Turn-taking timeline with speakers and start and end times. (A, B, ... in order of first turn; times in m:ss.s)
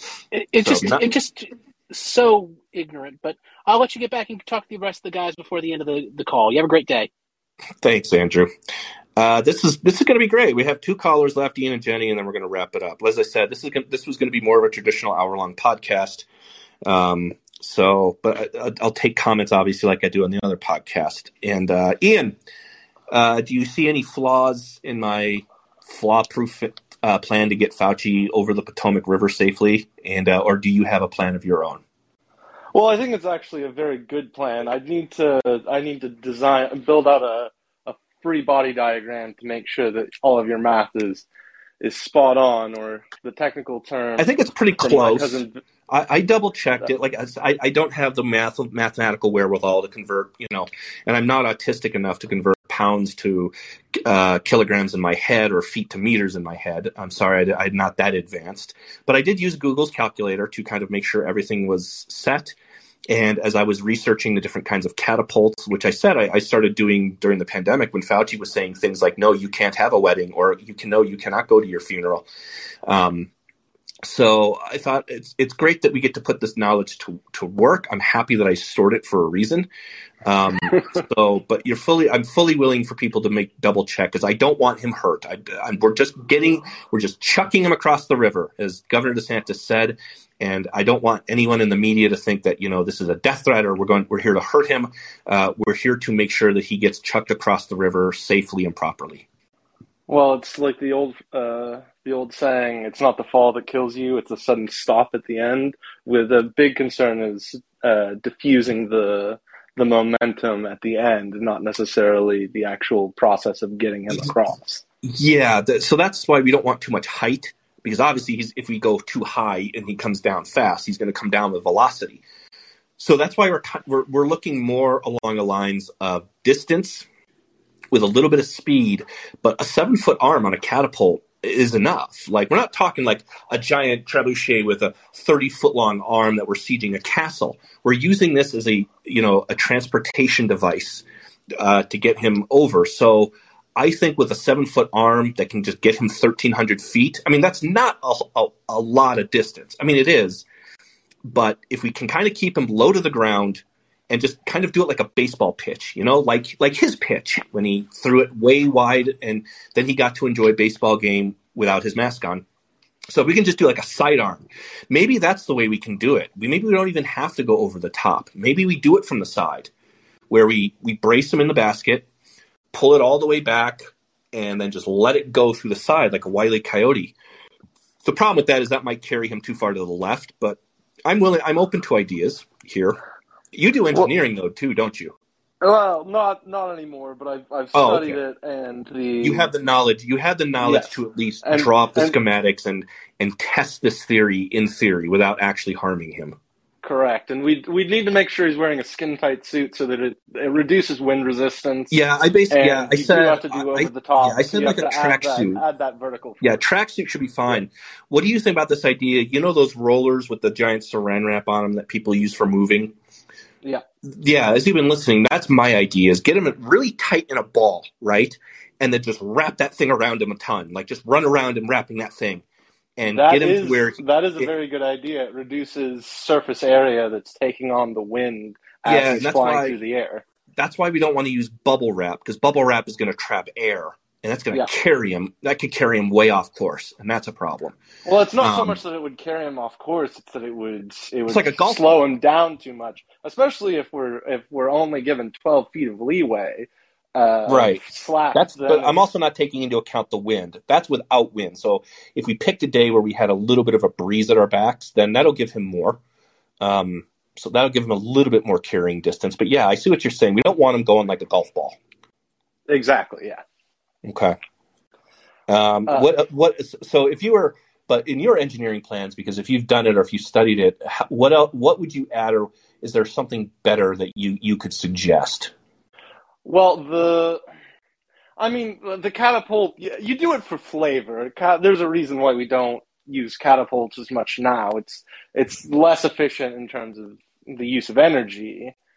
0:00.3-0:07.1 A
0:00.6-0:01.0 B
0:07.8-0:08.5 B
0:09.2-0:16.3 B
0:16.8-0:22.4 B
0:23.1-0:31.8 B
0:32.7-0:41.2 C
0:41.8-0:44.3 C
0:44.2-0:53.5 B
0:44.8-0:45.6 C
0:54.0-1:02.6 B
1:03.1-1:12.2 B
1:12.9-1:13.3 B
1:14.0-1:19.7 B
1:20.2-1:39.2 B
1:40.1-1:54.8 C
1:55.0-2:02.2 B
2:03.0-2:07.0 B
2:07.9-2:21.0 B
2:21.6-2:30.4 B
2:31.3-2:42.4 B
2:43.1-2:49.7 B
2:50.3-2:52.0 B
2:52.7-2:57.1 B
2:58.0-3:03.0 B
3:03.5-3:05.1 B
3:05.6-3:09.5 C
3:07.7-3:08.2 B
3:09.2-3:16.4 B
3:10.6-3:12.2 C
3:16.8-3:22.0 C
3:21.9-3:25.6 B
3:22.5-3:26.6 C
3:26.4-3:32.9 B
3:34.0-3:42.4 B
3:43.0-3:44.5 B
3:43.1-3:50.2 C
3:48.8-3:49.8 B
3:50.6-3:57.8 B
3:58.0-4:09.0 C
3:58.4-3:58.8 B
4:01.3-4:01.9 B
4:07.4-4:16.0 B
4:16.6-4:21.8 B
4:22.7-4:23.4 C
4:24.0-4:24.4 B
4:25.5-4:35.5 B
4:36.4-4:37.4 C
4:38.4-4:48.7 C